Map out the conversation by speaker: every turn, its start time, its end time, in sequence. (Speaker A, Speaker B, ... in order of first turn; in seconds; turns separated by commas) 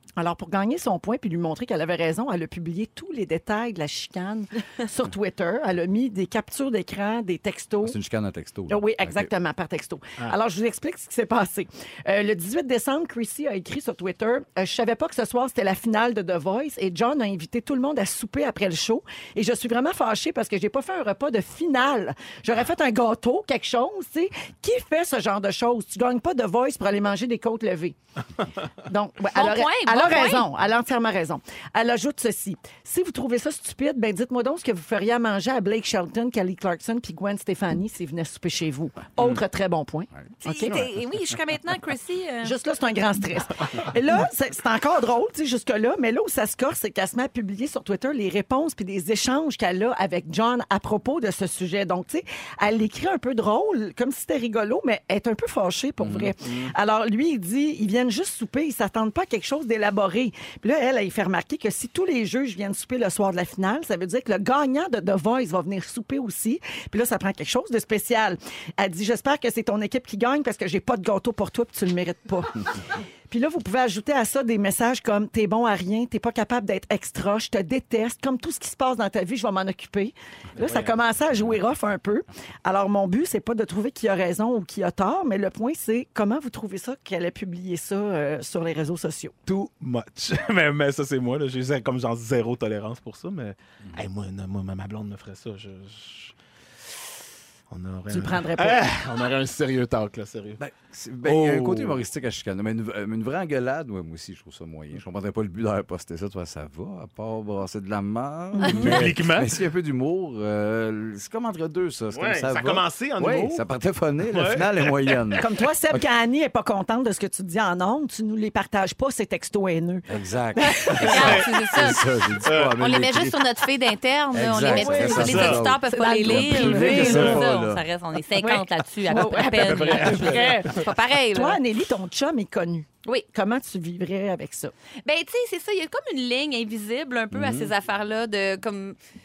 Speaker A: 0.2-8.0, Speaker B: 7.8-9.3, Speaker A: 8.7-28.0, Speaker A: 28.9-40.8, Speaker C: 29.3-30.4, Speaker C: 40.4-42.5, Speaker A: 42.4-72.6, Speaker B: 56.0-56.3, Speaker D: 56.4-56.7, Speaker A: 73.3-89.3, Speaker D: 80.6-80.9, Speaker D: 89.5-96.3, Speaker D: 97.7-100.6, Speaker A: 98.1-98.8, Speaker B: 100.6-116.0, Speaker D: 101.2-102.0, Speaker D: 108.6-109.5, Speaker D: 112.1-113.6, Speaker D: 114.3-115.2, Speaker A: 115.4-120.0, Speaker B: 120.1-123.5, Speaker A: 120.6-121.0, Speaker C: 121.0-122.0, Speaker D: 121.0-122.8, Speaker C: 122.8-131.6, Speaker B: 124.3-127.8, Speaker A: 124.7-127.4, Speaker D: 125.2-125.6, Speaker D: 127.0-127.4, Speaker A: 128.4-134.7, Speaker D: 129.4-130.8, Speaker C: 135.1-139.0, Speaker B: 137.3-137.7